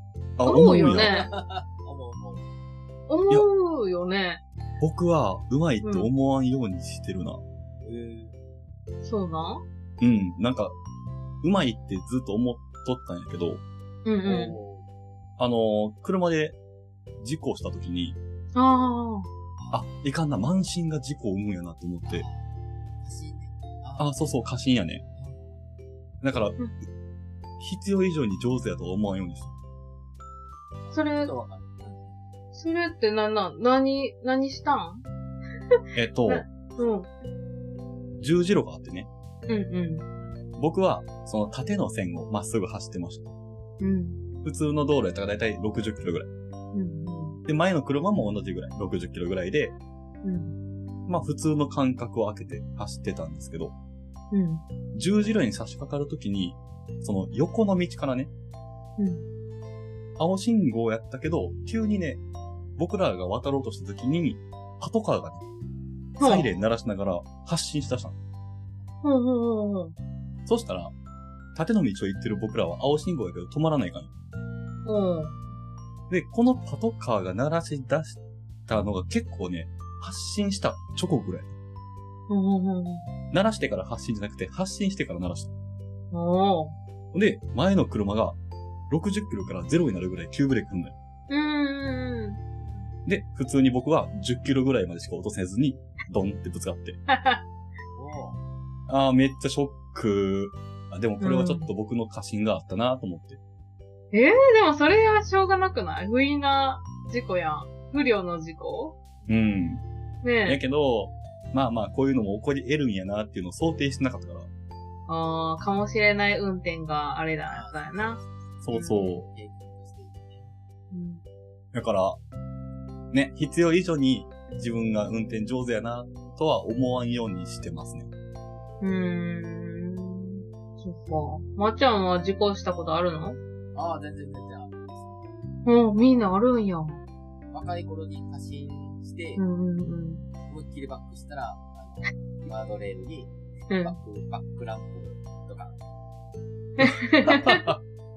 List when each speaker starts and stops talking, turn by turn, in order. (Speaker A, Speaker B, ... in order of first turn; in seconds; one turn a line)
Speaker A: 0.4-1.1
Speaker B: 0.5-1.3
Speaker C: 0.8-2.5
Speaker B: 3.1-4.4
Speaker A: 4.8-7.4
Speaker B: 5.8-6.1
Speaker C: 7.8-8.3
Speaker B: 9.0-9.6
Speaker A: 10.0-10.7
Speaker A: 11.4-13.6
Speaker B: 14.0-14.6
Speaker C: 14.2-14.9
Speaker A: 15.4-16.6
Speaker A: 17.2-18.1
Speaker B: 18.5-19.3
Speaker C: 19.6-19.9
Speaker A: 19.7-22.2
Speaker C: 22.1-22.5
Speaker C: 23.0-24.1
Speaker A: 24.0-25.0
Speaker C: 25.1-25.6
Speaker A: 26.2-26.6
Speaker A: 27.6-29.5
Speaker C: 30.8-32.1
Speaker B: 30.9-31.3
Speaker B: 32.5-35.0
Speaker A: 35.9-36.4
Speaker B: 36.3-37.1
Speaker A: 38.2-39.1
Speaker B: 39.5-40.0
Speaker A: 40.6-43.3
Speaker B: 43.8-44.2
Speaker A: 44.4-46.3
Speaker B: 46.7-47.4
Speaker A: 47.5-49.8
Speaker B: 50.2-50.5
Speaker A: 51.1-53.7
Speaker B: 54.3-54.6
Speaker A: 54.9-58.3
Speaker B: 59.0-59.2
Speaker A: 60.2-62.2
Speaker A: 62.8-65.4
Speaker B: 66.2-66.5
Speaker A: 66.2-68.2
Speaker B: 69.0-69.9
Speaker A: 70.5-70.9
Speaker A: 71.5-74.1
Speaker B: 74.8-75.4
Speaker A: 76.1-81.5
Speaker B: 82.3-83.0
Speaker A: 83.3-85.5
Speaker B: 86.1-86.7
Speaker A: 87.1-88.4
Speaker A: 88.9-90.9
Speaker B: 91.3-92.4
Speaker C: 92.6-92.9
Speaker A: 93.0-97.0
Speaker B: 97.1-97.4
Speaker C: 97.9-98.4
Speaker A: 98.9-103.4
Speaker B: 101.2-101.7
Speaker B: 104.1-108.9
Speaker A: 109.3-109.8
Speaker B: 110.2-110.6
Speaker A: 110.4-114.5
Speaker B: 115.1-118.2
Speaker C: 117.5-120.5
Speaker A: 118.6-119.2
Speaker B: 118.7-119.2
Speaker B: 120.9-121.2
Speaker A: 121.7-122.2
Speaker A: 123.1-128.1
Speaker B: 128.8-133.4
Speaker C: 133.7-135.2
Speaker B: 135.6-137.0
Speaker C: 137.5-139.4
Speaker B: 139.4-140.2
Speaker C: 140.5-145.8
Speaker B: 143.7-143.9
Speaker B: 146.8-147.6
Speaker A: 147.3-147.8